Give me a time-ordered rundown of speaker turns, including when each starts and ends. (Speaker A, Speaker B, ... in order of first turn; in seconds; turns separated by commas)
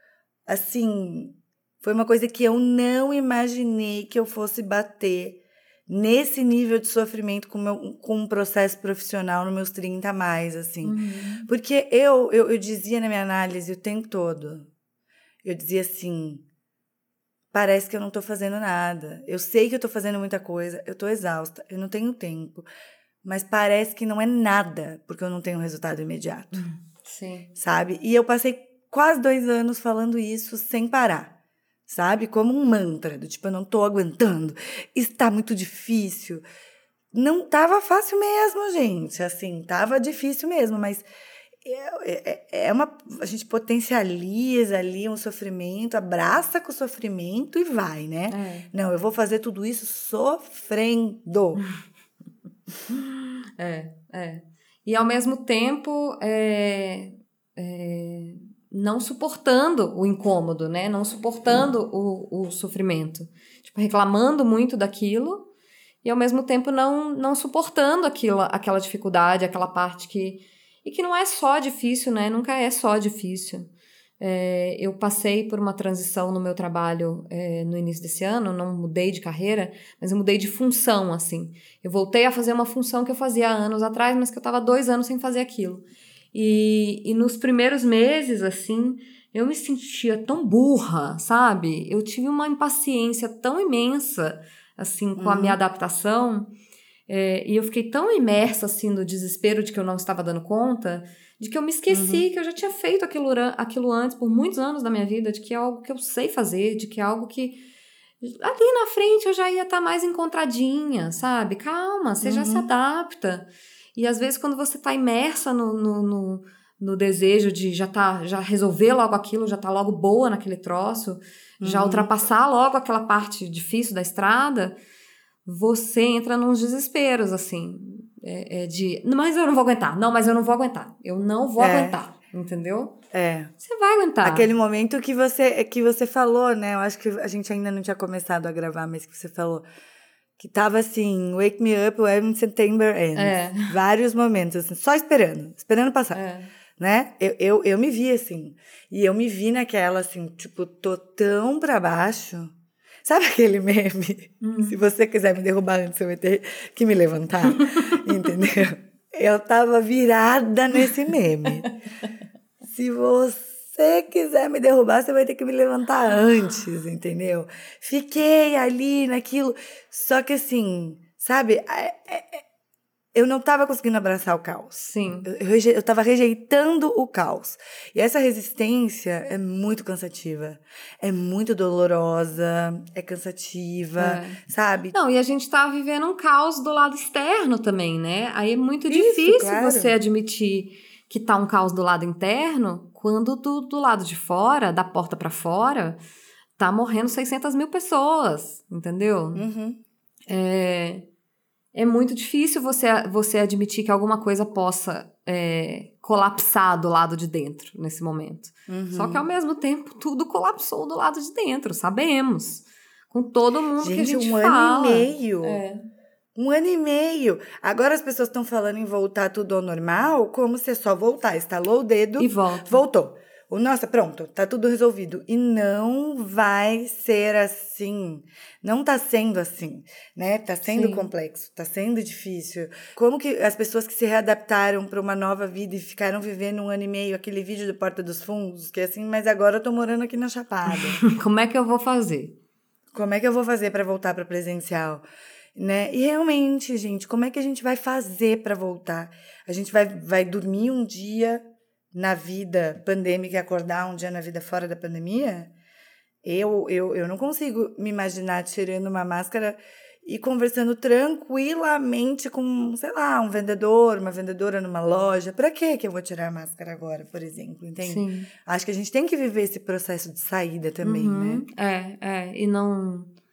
Speaker A: 0.5-14.7, Speaker B: 10.8-11.5, Speaker A: 15.4-16.4, Speaker A: 17.5-22.7, Speaker A: 23.2-26.6, Speaker B: 26.6-27.5, Speaker A: 27.6-31.3, Speaker A: 31.9-36.4, Speaker A: 37.1-41.1, Speaker A: 41.6-51.6, Speaker B: 48.3-48.7, Speaker B: 52.9-65.5, Speaker B: 66.0-73.7, Speaker B: 74.2-96.5, Speaker A: 95.2-95.6, Speaker B: 97.1-107.6, Speaker A: 101.9-102.2, Speaker B: 108.2-124.8, Speaker A: 112.2-112.7, Speaker A: 121.6-122.1, Speaker B: 125.5-133.0, Speaker A: 131.6-132.0, Speaker A: 133.1-133.5, Speaker B: 133.6-134.5, Speaker A: 134.2-139.7, Speaker A: 140.4-146.2, Speaker B: 143.2-143.7, Speaker B: 146.1-146.5, Speaker A: 146.8-152.5, Speaker A: 153.1-161.7, Speaker B: 154.4-154.8, Speaker B: 157.6-157.9, Speaker A: 162.6-172.4, Speaker A: 173.2-184.9, Speaker B: 174.8-175.3, Speaker B: 184.0-184.4, Speaker B: 184.9-196.0, Speaker A: 188.9-189.9, Speaker B: 196.6-199.4, Speaker A: 199.3-199.8, Speaker B: 200.3-201.0, Speaker B: 201.7-215.8, Speaker A: 208.7-209.2, Speaker A: 213.8-215.6, Speaker A: 216.4-241.0, Speaker B: 222.2-222.8, Speaker B: 230.7-231.1, Speaker B: 240.7-242.3, Speaker A: 242.9-245.0, Speaker A: 245.6-255.5, Speaker A: 256.2-271.4, Speaker B: 267.8-268.3, Speaker B: 270.8-273.1